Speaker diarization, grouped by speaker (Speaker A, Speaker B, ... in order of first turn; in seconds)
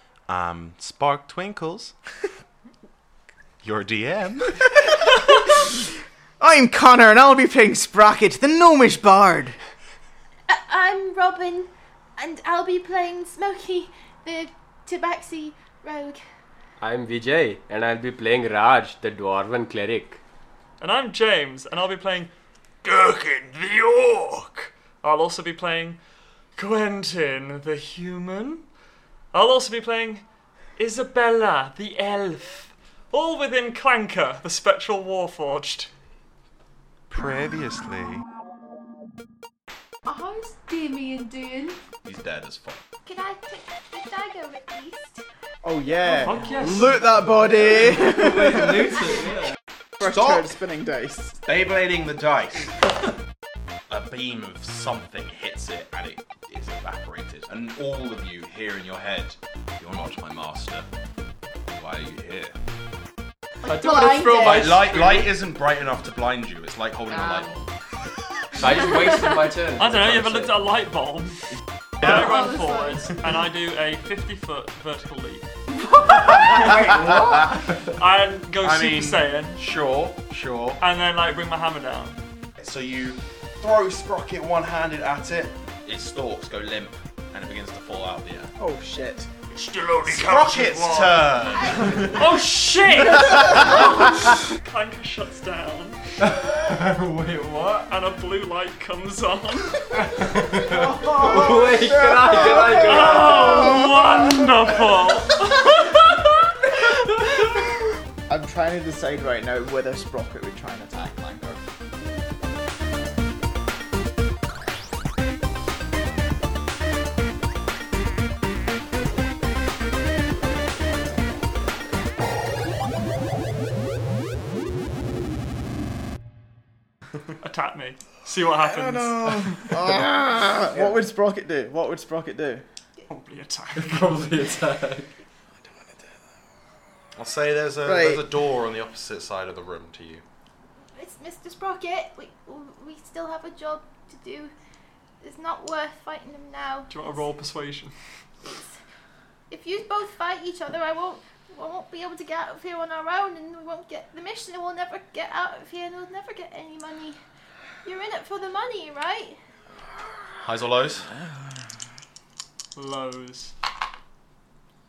Speaker A: 0.3-1.9, 3.6-4.8, 37.1-38.2, 42.0-42.8, 50.0-50.5, 51.5-52.8, 53.9-60.9, 61.7-62.5, 64.4-67.7, 78.6-80.8, 82.6-88.5, 90.0-92.3, 93.0-94.0, 101.0-101.9, 137.2-140.2, 160.4-161.1
Speaker B: 6.4-9.6, 45.6-48.9, 50.0-51.4, 88.6-89.3, 100.7-104.7, 108.3-111.6, 128.6-132.6, 135.7-136.0, 137.8-138.2
Speaker C: 10.5-16.2, 40.0-41.8, 43.0-45.2, 63.6-64.9, 67.1-67.5, 72.0-73.1, 75.7-76.8, 140.9-144.5, 145.2-146.9, 148.4-148.7, 149.5-157.2, 157.8-159.4
Speaker D: 16.8-20.2, 46.9-49.5, 63.6-65.3, 68.6-70.7, 76.3-78.0, 96.2-97.9, 100.0-103.8, 133.7-135.1
Speaker E: 20.8-22.3, 22.8-26.0, 26.6-28.6, 29.3-30.2, 30.8-35.9, 46.0-47.0, 69.8-75.5, 77.8-79.6, 80.8-82.2, 89.5-91.3, 92.0-96.0, 97.8-100.2, 102.7-107.5, 127.4-130.0, 133.1-134.2, 146.9-147.9, 162.7-163.5